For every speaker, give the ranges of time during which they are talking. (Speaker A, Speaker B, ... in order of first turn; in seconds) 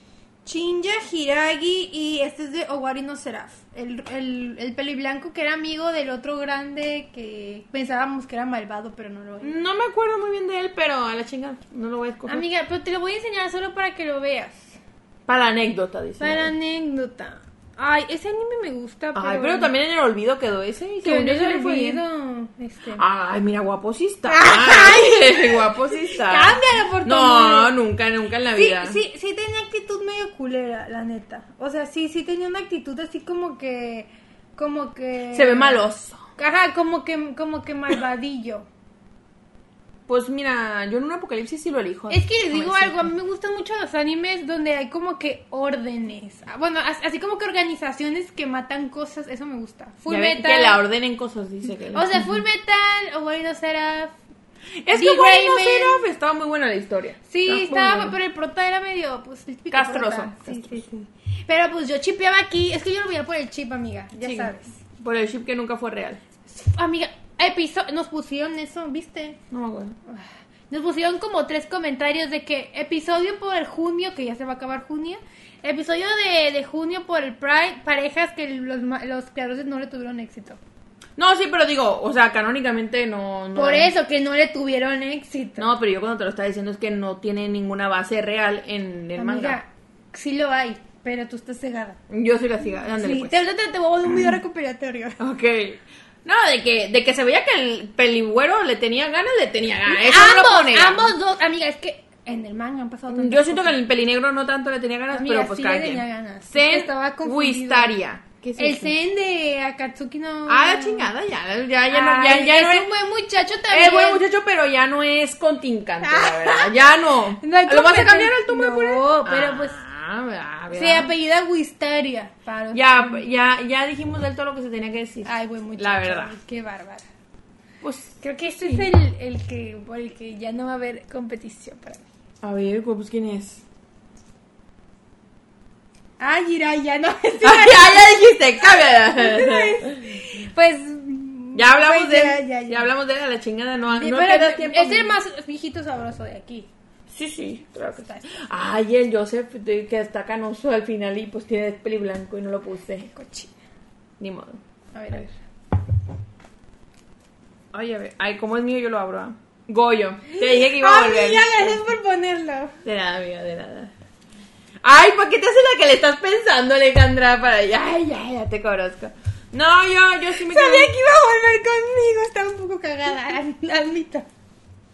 Speaker A: 0.4-9.6, 12.2-14.7, 16.2-19.7, 21.0-23.0, 24.3-27.7, 28.5-35.8, 36.4-38.7, 42.1-50.8, 51.9-54.1, 54.9-56.0, 57.3-64.8, 66.5-69.4, 70.1-80.6, 83.5-85.7, 89.2-92.0, 93.0-95.2, 99.8-103.8, 105.1-107.9, 108.6-111.1, 111.9-114.2, 116.0-116.8, 117.4-119.8, 120.7-123.2, 125.2-127.0, 128.2-132.0, 136.2-142.9, 143.9-146.7, 147.9-148.4, 153.1-153.5, 154.9-155.3, 160.3-162.7, 170.4-174.3
Speaker B: 9.4-12.4, 15.3-16.5, 19.1-22.0, 22.9-29.0, 35.3-36.2, 40.1-43.1, 50.1-52.3, 54.8-58.1, 59.7-60.9, 64.2-66.2, 69.5-69.9, 81.2-83.9, 85.6-89.6, 92.1-93.4, 95.2-101.1, 103.1-108.9, 110.5-112.9, 113.7-121.1, 122.7-126.3, 127.8-128.9, 132.4-133.6, 137.4-140.2, 141.5-145.2, 147.1-153.1, 154.2-154.6, 157.7-161.8, 162.8-163.9, 164.8-170.9